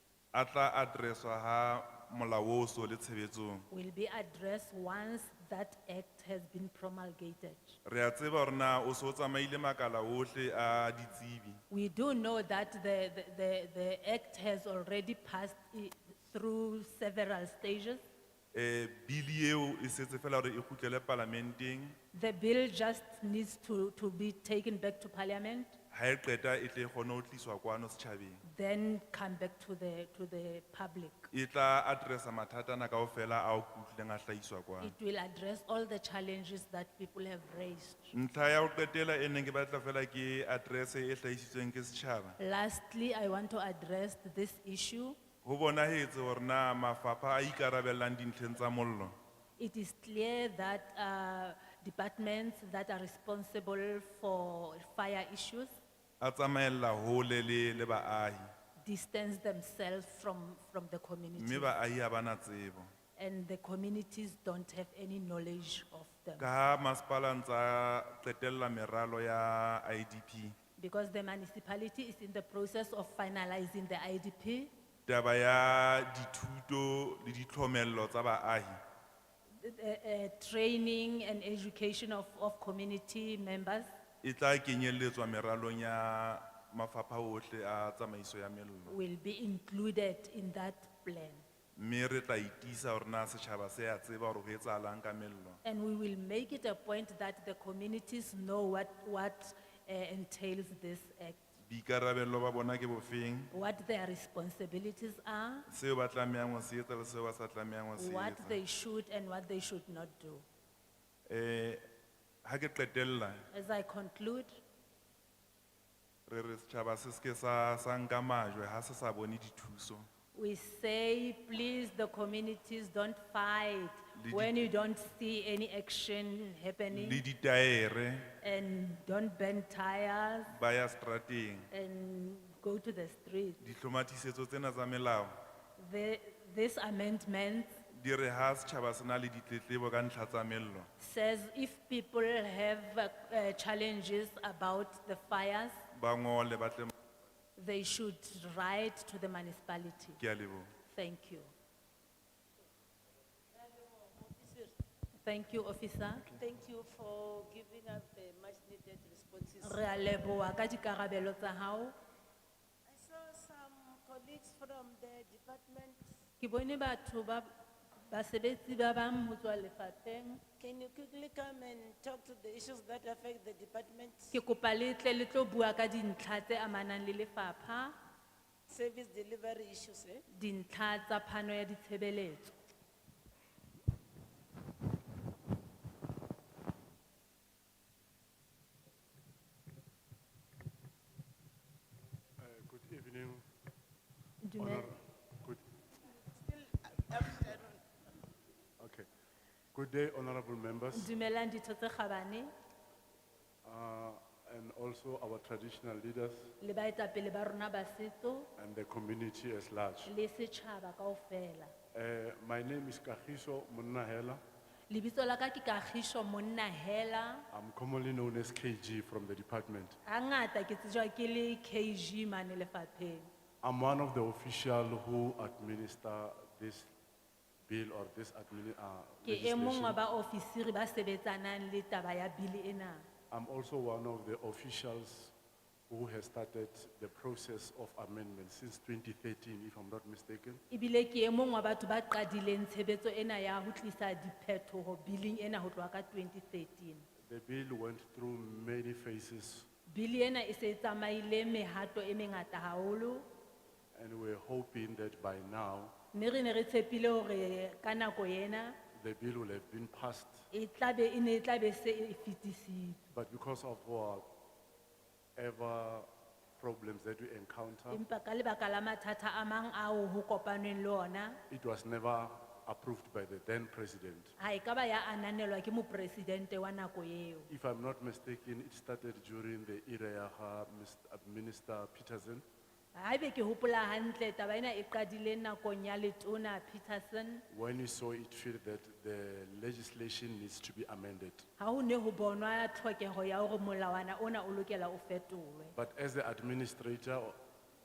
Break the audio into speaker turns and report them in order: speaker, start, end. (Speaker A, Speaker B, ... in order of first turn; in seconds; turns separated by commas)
Speaker A: 0.3-3.7, Speaker B: 3.7-7.8, Speaker A: 7.8-11.6, Speaker B: 11.7-18.0, Speaker A: 18.5-22.0, Speaker B: 22.1-25.8, Speaker A: 25.9-28.4, Speaker B: 28.4-31.3, Speaker A: 31.3-35.0, Speaker B: 34.8-38.1, Speaker A: 38.1-42.4, Speaker B: 42.4-45.2, Speaker A: 45.4-49.1, Speaker B: 49.6-55.8, Speaker A: 56.2-58.5, Speaker B: 58.8-61.8, Speaker A: 61.4-62.9, Speaker B: 63.2-66.5, Speaker A: 66.4-70.5, Speaker B: 70.8-74.7, Speaker A: 75.1-78.8, Speaker B: 79.6-83.9, Speaker A: 84.2-89.0, Speaker B: 88.9-91.4, Speaker A: 91.8-95.6, Speaker B: 95.6-101.5, Speaker A: 101.7-103.5, Speaker B: 103.5-105.7, Speaker A: 105.7-108.6, Speaker B: 108.0-110.5, Speaker A: 111.3-111.8, Speaker A: 112.5-113.5, Speaker B: 113.5-114.6, Speaker A: 116.3-120.1, Speaker B: 120.3-127.2, Speaker A: 124.2-124.7, Speaker A: 126.9-128.3, Speaker B: 128.4-130.5, Speaker A: 130.5-131.7, Speaker B: 131.7-133.6, Speaker A: 133.6-135.4, Speaker B: 135.8-137.8, Speaker A: 137.9-140.9, Speaker B: 141.0-145.8, Speaker A: 145.9-146.9, Speaker B: 147.6-150.2, Speaker A: 150.2-150.7, Speaker B: 150.9-151.5, Speaker C: 153.5-154.8, Speaker B: 155.2-156.3, Speaker C: 156.4-159.8, Speaker B: 159.6-161.9, Speaker C: 162.9-166.1, Speaker B: 166.4-167.5, Speaker B: 168.1-170.4, Speaker C: 170.6-174.3, Speaker B: 174.3-178.0, Speaker C: 178.7-180.2, Speaker B: 180.3-182.5, Speaker D: 192.4-193.4, Speaker B: 194.4-194.9, Speaker D: 194.6-195.6, Speaker C: 196.2-197.8, Speaker D: 198.8-199.1, Speaker D: 199.7-201.1, Speaker B: 200.9-202.5, Speaker D: 203.6-206.5, Speaker B: 206.6-208.5, Speaker D: 208.6-210.1, Speaker B: 210.1-211.7, Speaker D: 211.9-214.4, Speaker B: 214.9-217.5, Speaker D: 217.5-220.0, Speaker B: 220.1-223.3, Speaker D: 223.6-226.9, Speaker D: 227.7-230.0, Speaker B: 229.2-233.1, Speaker D: 233.3-235.3, Speaker D: 235.9-240.6, Speaker B: 240.7-247.1, Speaker D: 247.2-249.7, Speaker B: 249.9-253.3, Speaker D: 253.9-255.9, Speaker B: 256.1-258.8, Speaker D: 258.9-260.4, Speaker B: 260.5-263.0, Speaker D: 263.1-264.3, Speaker D: 265.4-268.0, Speaker B: 267.9-271.4, Speaker D: 271.5-274.4, Speaker B: 274.4-277.5, Speaker D: 277.5-282.4, Speaker B: 282.9-287.4, Speaker D: 287.5-291.5, Speaker B: 291.6-295.8, Speaker D: 295.8-297.4